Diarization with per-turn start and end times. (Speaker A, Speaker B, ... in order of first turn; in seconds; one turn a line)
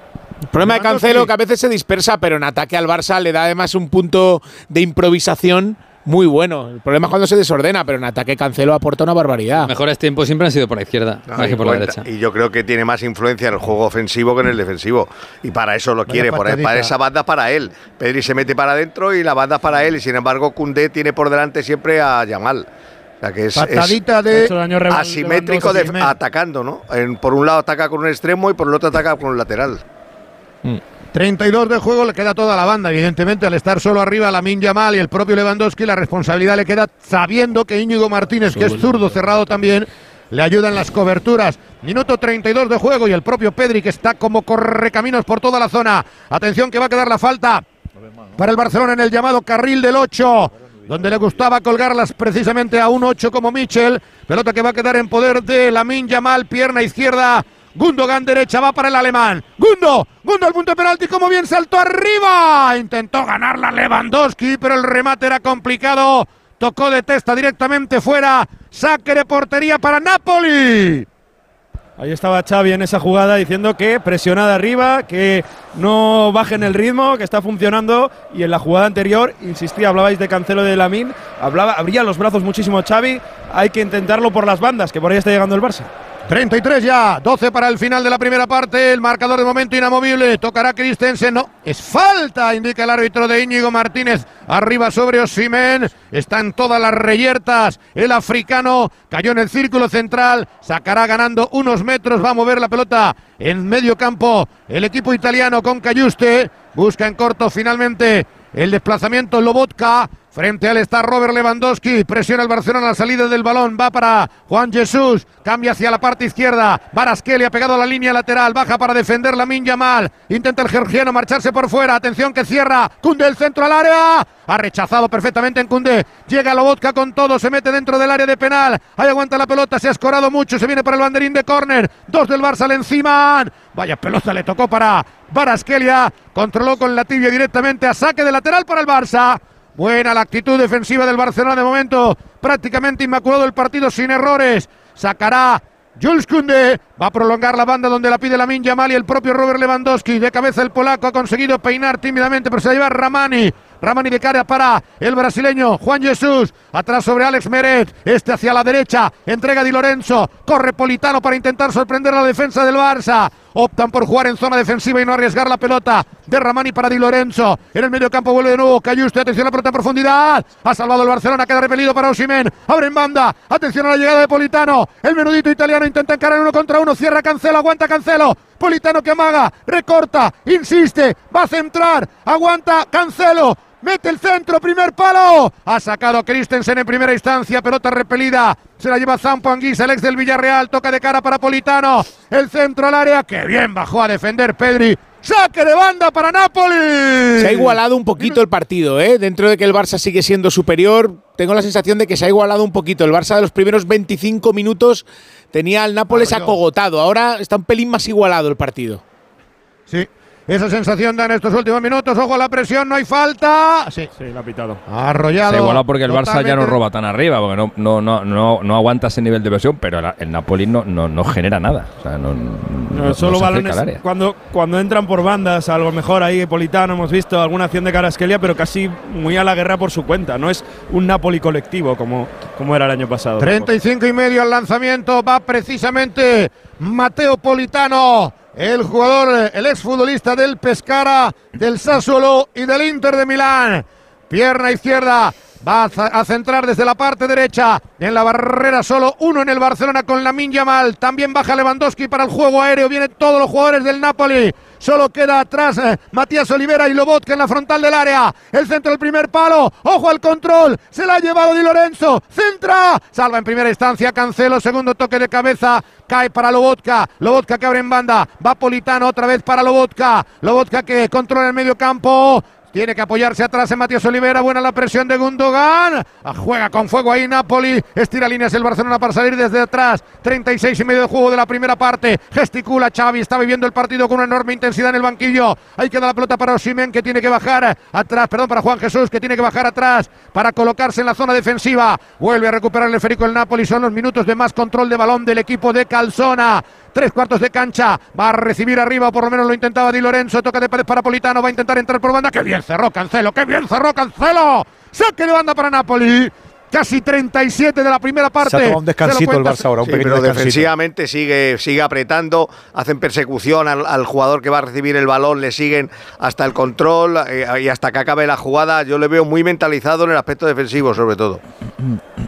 Speaker A: 0.5-9.7
Speaker B: 0.6-1.3
Speaker C: 9.7-12.0
Speaker D: 11.3-22.7
Speaker B: 16.1-16.9
Speaker D: 23.2-24.0
Speaker B: 23.6-24.5
Speaker E: 24.3-26.1
Speaker D: 24.9-29.8
Speaker B: 31.1-47.6
Speaker B: 48.4-71.0
Speaker E: 72.0-85.9
Speaker B: 86.3-198.4
Speaker A: 197.4-209.0
Speaker B: 206.1-206.6
Speaker B: 209.9-214.1
Speaker E: 214.2-214.8
Speaker B: 214.9-216.8
Speaker F: 215.4-224.0
Speaker E: 222.9-233.7
Speaker B: 233.4-309.7
Speaker G: 308.4-310.7
Speaker D: 309.9-321.4